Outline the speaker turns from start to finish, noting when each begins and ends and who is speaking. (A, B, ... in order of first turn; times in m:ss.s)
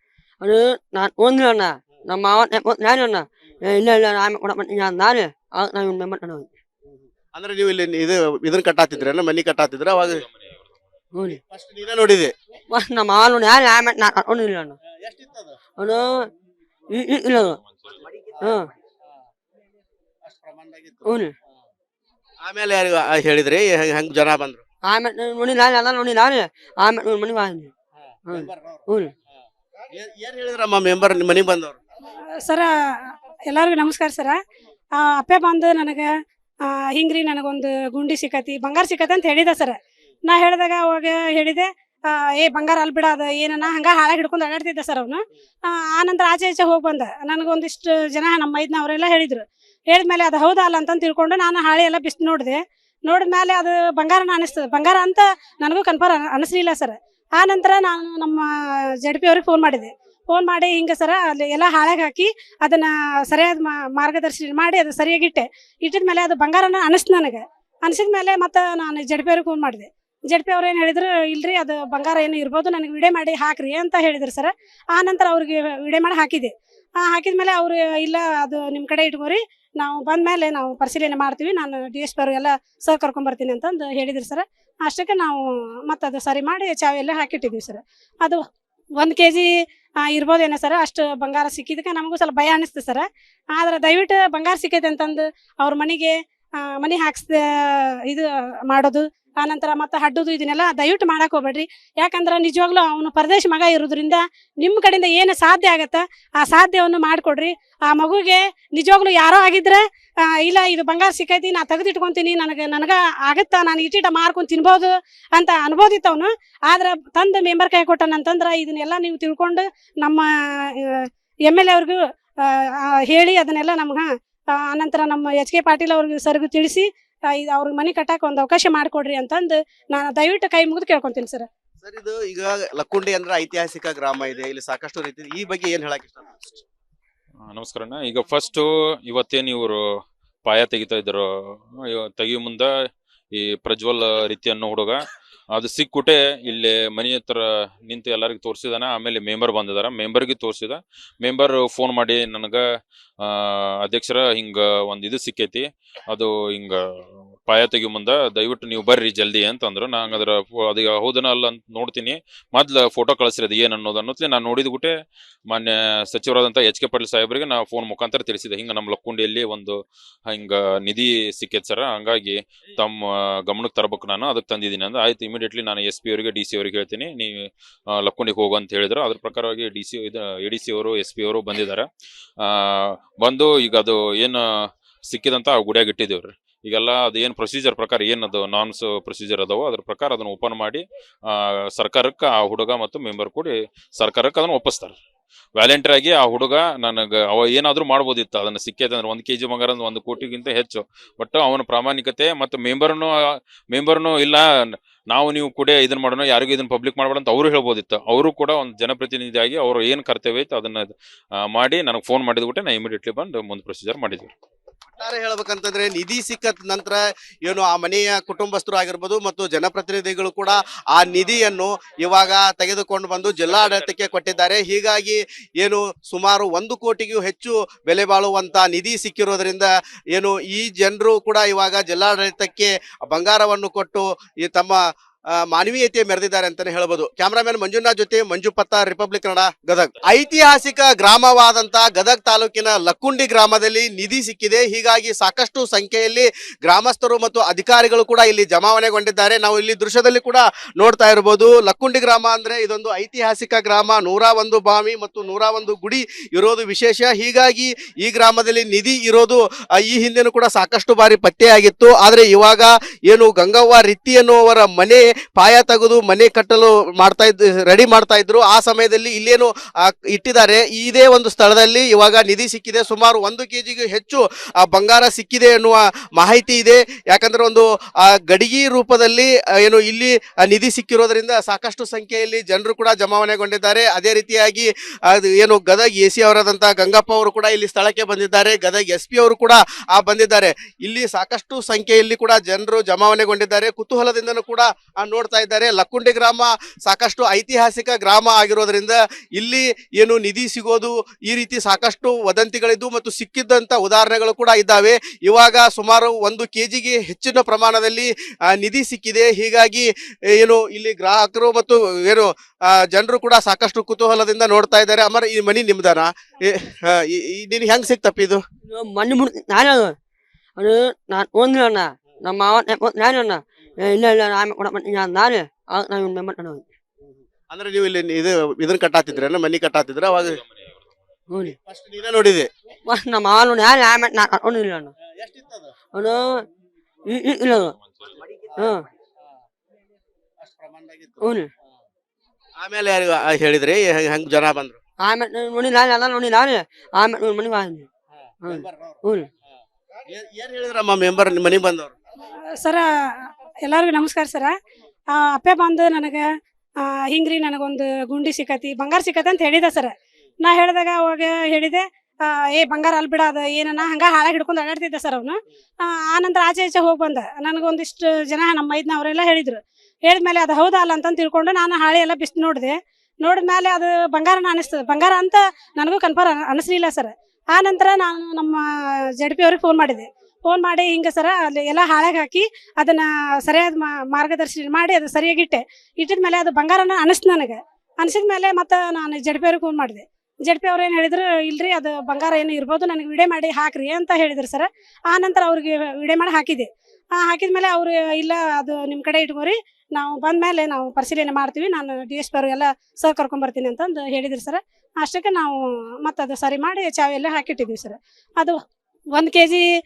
0:00.4-0:06.5 A
0:07.4-0:10.2 B
0:10.0-0:10.8 C
0:11.3-0:12.3 B
0:12.7-0:14.8 A
0:15.0-0:15.5 B
0:15.8-0:16.2 A
0:16.9-0:17.6 A
0:17.6-0:18.0 C
0:18.1-0:18.6 B
0:20.3-0:21.0 B
0:21.0-0:21.3 A
0:22.4-0:24.6 B
0:24.8-0:27.7 A
0:28.3-0:29.1 A
0:28.3-0:28.8 B
0:29.9-0:31.8 B
0:32.5-0:34.4 D
0:35.0-0:36.1 D
0:36.6-1:28.4 D
1:29.0-1:29.5 D
1:30.0-2:11.5 D
2:11.8-2:16.6 B
2:17.5-2:19.8 C
2:20.4-2:22.7 C
2:23.3-2:25.0 C
2:25.5-2:32.6 C
2:33.2-2:36.8 C
2:37.5-2:44.9 C
2:45.5-3:01.9 C
3:02.4-3:04.4 C
3:05.1-3:15.0 C
3:15.6-3:34.3 C
3:35.0-3:54.8 B
3:55.4-5:18.4 B
5:18.7-5:19.9 A
5:20.6-5:26.6 A
5:27.5-5:30.4 B
5:30.1-5:30.9 C
5:31.3-5:31.5 A
5:31.6-5:32.5 B
5:32.9-5:34.9 A
5:35.2-5:35.7 B
5:35.9-5:36.4 A
5:37.1-5:37.7 A
5:37.7-5:38.2 C
5:38.2-5:38.7 B
5:38.6-5:38.8 A
5:40.4-5:41.2 B
5:41.2-5:41.5 A
5:42.6-5:44.8 B
5:45.0-5:47.9 A
5:48.4-5:49.3 A
5:48.5-5:49.0 B
5:50.1-5:51.9 B
5:52.6-5:54.5 D
5:55.1-5:56.3 D
5:56.8-6:48.6 D
6:49.1-6:49.6 D